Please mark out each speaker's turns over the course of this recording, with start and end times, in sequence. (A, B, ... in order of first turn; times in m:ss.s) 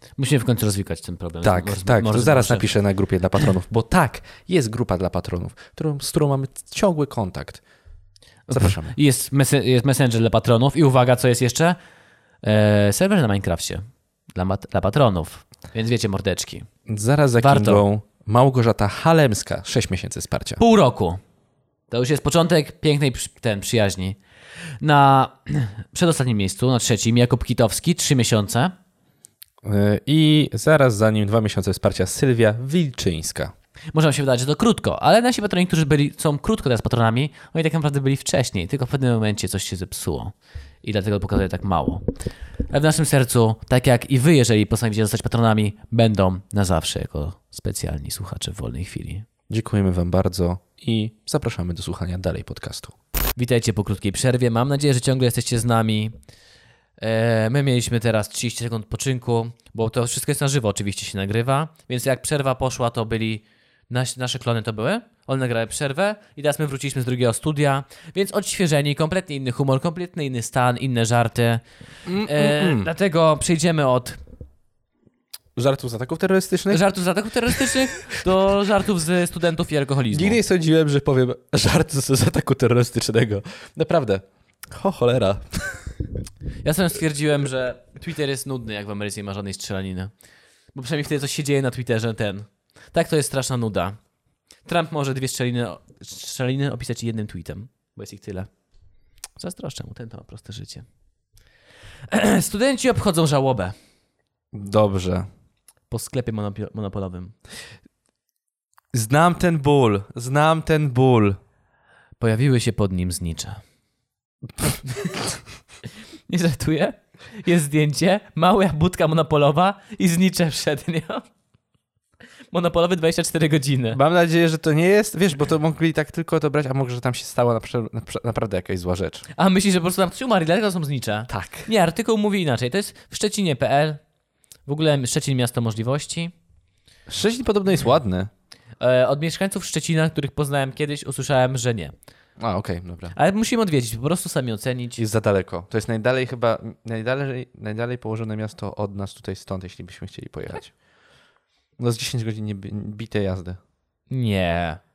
0:00.2-0:02.7 A
0:01.4-0:07.6 B
0:08.5-0:11.8 A
0:08.5-0:09.0 B
0:12.4-0:16.7 A
0:16.9-0:20.6 B
0:17.4-0:17.8 A
0:20.6-0:21.2 A
0:21.9-0:24.2 A
0:24.8-0:28.7 A
0:29.6-0:33.5 B
0:33.9-0:42.0 A
0:42.7-0:49.2 A
0:49.5-0:53.0 B
0:53.4-0:56.2 A
0:57.0-1:11.6 A
1:12.1-1:12.9 B
1:12.2-1:14.2 A
1:15.6-1:16.8 B
1:16.7-1:20.4 A
1:17.5-1:18.3 B
1:20.1-1:25.9 B
1:26.6-1:30.1 A
1:30.7-1:34.0 A
1:34.7-1:38.5 A
1:39.4-1:40.9 A
1:42.1-1:43.7 A
1:44.5-1:45.3 B
1:45.9-1:47.4 A
1:48.9-1:51.4 B
1:52.2-1:53.6 A
1:54.9-1:55.2 A
1:56.3-2:01.2 A
2:02.5-2:04.0 A
2:03.9-2:09.3 B
2:09.4-2:14.0 A
2:11.3-2:11.7 B
2:14.7-2:16.3 A
2:17.1-2:18.3 B
2:18.8-2:22.0 A
2:22.4-2:23.2 B
2:23.1-2:25.0 A
2:25.0-2:30.7 B
2:31.8-2:33.6 B
2:34.1-2:34.8 A